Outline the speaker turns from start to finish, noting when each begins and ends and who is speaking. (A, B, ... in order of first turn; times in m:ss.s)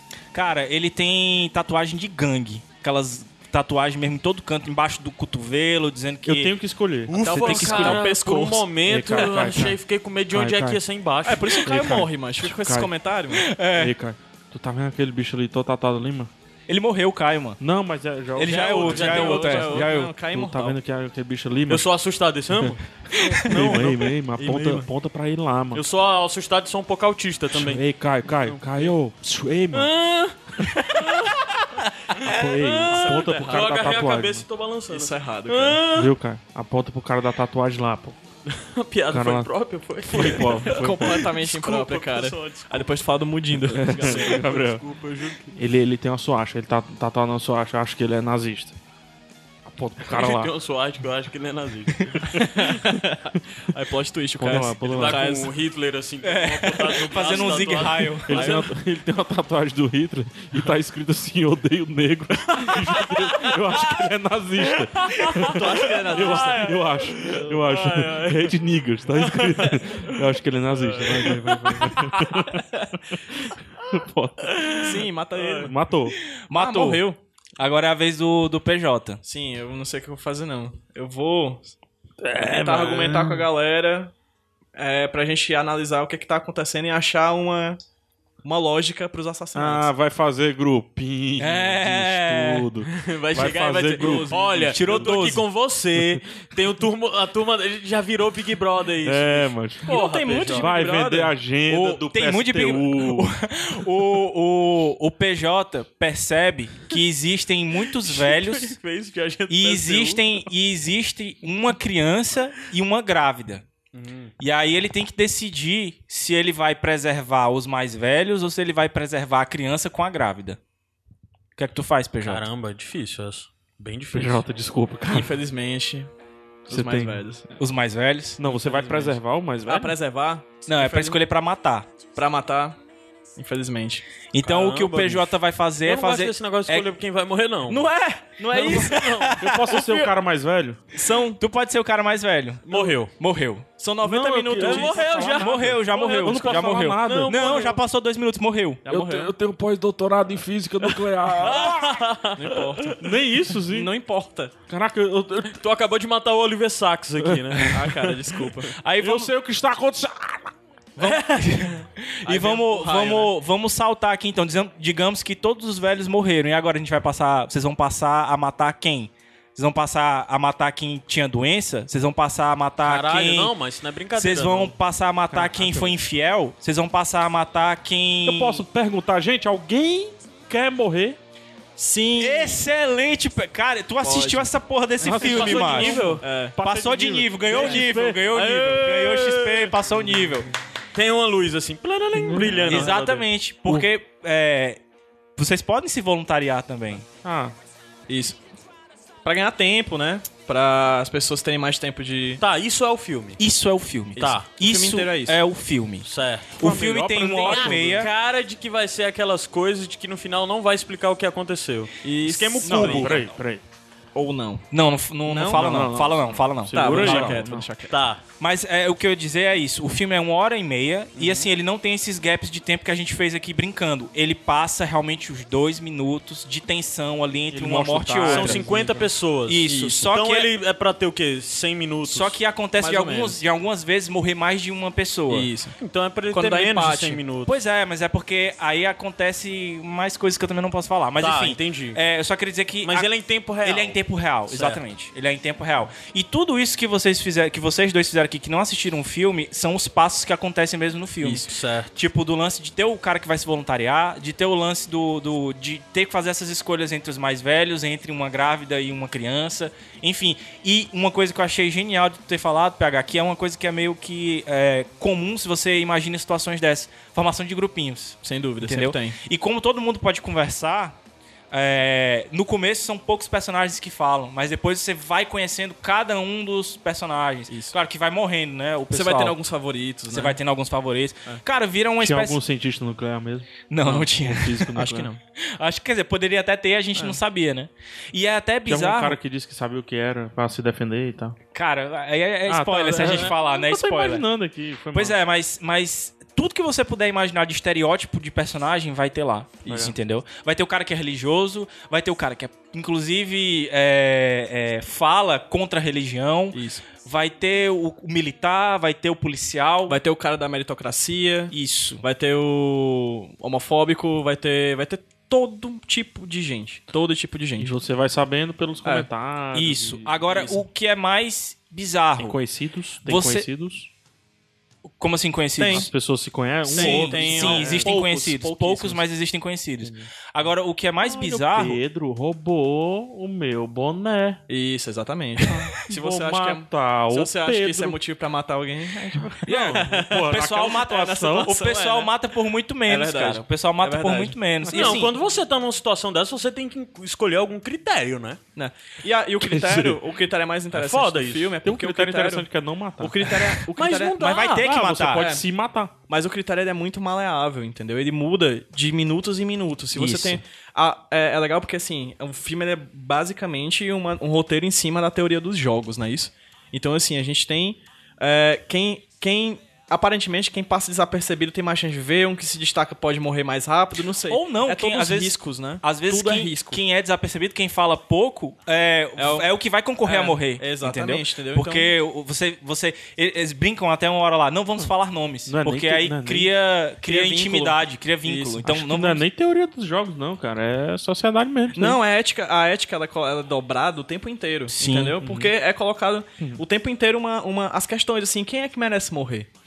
0:00.3-0:06.5 A
0:06.2-0:08.2 B
0:07.1-0:11.8 C
0:07.2-0:09.5 D
0:08.9-0:10.8 B
0:11.2-0:13.5 D
0:11.7-0:12.9 B
0:13.3-0:14.0 A
0:13.7-0:16.3 B
0:16.7-0:17.6 A
0:17.6-0:21.9 B
0:18.4-0:20.1 A
0:18.4-0:20.8 D
0:18.8-0:19.8 C
0:21.7-0:24.1 C
0:23.4-0:25.8 B
0:24.4-0:24.9 D
0:25.7-0:29.0 C
0:27.5-0:29.9 B
0:29.7-0:30.4 C
0:30.9-0:31.4 C
0:32.2-0:34.5 B
0:32.5-0:36.1 C
0:32.8-0:34.0 D
0:34.9-0:35.8 D
0:35.9-0:38.2 B
0:38.5-0:43.0 C
0:39.1-0:39.5 B
0:40.0-0:41.3 B
0:40.2-0:44.7 D
0:43.7-0:44.8 B
0:43.8-0:45.6 C
0:45.5-0:48.8 B
0:49.6-0:50.5 B
0:50.0-0:52.4 C
0:52.3-0:55.5 D
0:52.4-0:52.7 B
0:54.4-0:55.3 B
0:54.9-0:58.7 C
0:56.2-0:58.5 A
0:57.1-0:58.7 D
0:58.3-1:12.6 B
1:02.5-1:03.6 C
1:04.7-1:08.6 C
1:05.5-1:06.7 D
1:09.1-1:10.1 C
1:10.7-1:12.3 C
1:12.4-1:13.0 D
1:13.9-1:16.2 B
1:14.7-1:15.8 D
1:15.4-1:15.7 C
1:16.5-1:17.0 A
1:16.5-1:17.2 D
1:17.6-1:19.2 A
1:19.2-1:21.7 D
1:22.2-1:23.5 B
1:22.6-1:24.1 D
1:24.8-1:27.8 D
1:28.4-1:29.9 D
1:29.6-1:34.8 B
1:31.4-1:32.7 A
1:32.9-1:40.7 C
1:34.0-1:35.2 D
1:34.7-1:35.4 A
1:36.0-1:36.2 B
1:39.0-1:40.0 B
1:39.9-1:41.3 D
1:40.6-1:43.3 B
1:41.7-1:48.8 A
1:47.8-1:50.4 C
1:49.5-1:53.6 A
1:53.9-1:54.3 C
1:54.4-2:00.6 A
2:01.6-2:02.5 A
2:02.3-2:04.4 C
2:04.1-2:05.4 B
2:05.1-2:06.1 D
2:06.7-2:07.4 D
2:06.7-2:07.2 B
2:07.6-2:08.4 A
2:08.4-2:10.0 B
2:08.4-2:09.2 C
2:09.7-2:11.2 D
2:10.7-2:11.9 A
2:12.2-2:12.8 D
2:13.4-2:14.1 D
2:14.3-2:16.9 A
2:14.4-2:17.9 C
2:17.7-2:20.0 A
2:17.9-2:19.0 D
2:18.5-2:19.4 C
2:19.4-2:20.8 B
2:20.9-2:21.4 D
2:21.4-2:23.7 A
2:22.7-2:23.1 C
2:23.8-2:25.1 D
2:24.0-2:27.4 B
2:24.6-2:27.8 C
2:25.4-2:28.8 A
2:28.8-2:29.3 D
2:28.9-2:32.1 B
2:31.3-2:33.0 C
2:32.4-2:33.0 D
2:33.0-2:33.9 B
2:33.7-2:34.5 D
2:34.7-2:35.6 B
2:35.5-2:38.2 C
2:37.2-2:38.0 B
2:37.7-2:38.7 D
2:38.8-2:39.3 A
2:39.0-2:40.5 B
2:41.0-2:41.7 D
2:41.0-2:53.5 A
2:42.2-2:43.3 D
2:52.8-2:54.7 C
2:54.1-2:58.6 A
2:55.3-2:56.0 B
2:58.2-3:01.2 B
3:01.8-3:02.7 D
3:02.2-3:10.5 A
3:04.0-3:05.4 D
3:05.0-3:08.3 B
3:05.2-3:06.2 C
3:06.1-3:06.6 D
3:07.5-3:07.8 D
3:08.3-3:09.8 C
3:10.9-3:13.3 C
3:12.2-3:12.9 B
3:12.6-3:14.8 A
3:15.4-3:17.0 A
3:17.1-3:17.6 B
3:18.1-3:18.4 D
3:19.2-3:22.4 D
3:22.4-3:23.4 C
3:23.4-3:28.1 A
3:24.2-3:24.4 C
3:24.2-3:25.4 D
3:26.0-3:33.2 C
3:26.6-3:28.1 B
3:32.0-3:33.2 D
3:32.6-3:33.2 A
3:32.8-3:33.6 B
3:34.2-3:34.6 D
3:34.7-3:37.5 A
3:35.3-3:36.0 D
3:35.5-3:37.7 B
3:36.7-3:38.0 D
3:37.9-3:38.2 C
3:38.4-3:48.7 A
3:41.2-3:41.5 D
3:47.5-3:49.1 B
3:48.2-3:52.4 C
3:49.4-3:50.5 A
3:52.0-3:55.5 A
3:52.8-3:53.4 D
3:55.3-3:55.8 D
3:55.8-3:57.5 C
3:56.3-3:57.2 D
3:57.4-4:03.1 A
4:01.2-4:02.0 C
4:02.8-4:04.8 C
4:03.6-4:31.0 A
4:11.2-4:11.9 C
4:28.2-4:29.2 D
4:31.5-4:39.4 A
4:37.5-4:37.8 D
4:38.9-4:40.4 D
4:40.1-4:42.4 A
4:42.0-4:45.1 B
4:43.7-4:44.8 A
4:44.8-4:45.2 D
4:45.4-4:49.2 A
4:48.7-4:51.4 B
4:51.5-4:54.3 A
4:52.5-4:55.2 B
4:54.9-5:10.0 A
5:06.5-5:06.8 D
5:09.9-5:17.8 D
5:11.5-5:12.0 A
5:17.6-5:20.6 B
5:19.5-5:22.4 A
5:22.2-5:23.9 B
5:23.0-5:23.5 A
5:25.0-5:25.9 A
5:25.6-5:25.9 D
5:25.7-5:28.0 B
5:26.7-5:31.8 A
5:26.7-5:29.0 D
5:31.0-5:34.4 B
5:34.5-5:42.1 D
5:35.9-5:38.0 B
5:39.2-5:41.5 B
5:39.4-5:45.1 A
5:42.9-5:44.4 D
5:44.6-5:45.0 B
5:44.7-5:48.4 C
5:48.6-5:52.5 D
5:49.4-5:50.0 B
5:50.7-5:51.5 C
5:51.6-5:53.6 B
5:53.0-5:54.2 D
5:53.7-5:54.6 C
5:54.2-5:55.3 A
5:54.6-5:55.9 B
5:55.1-5:55.5 D
5:56.1-6:16.8 D
5:59.9-6:00.4 A
6:14.3-6:29.2 A
6:19.2-6:19.5 D
6:20.0-6:21.9 D
6:25.5-6:26.5 B
6:27.0-6:28.7 D
6:28.6-6:32.0 B
6:31.7-6:39.5 D
6:34.8-6:35.2 A
6:35.2-6:35.5 B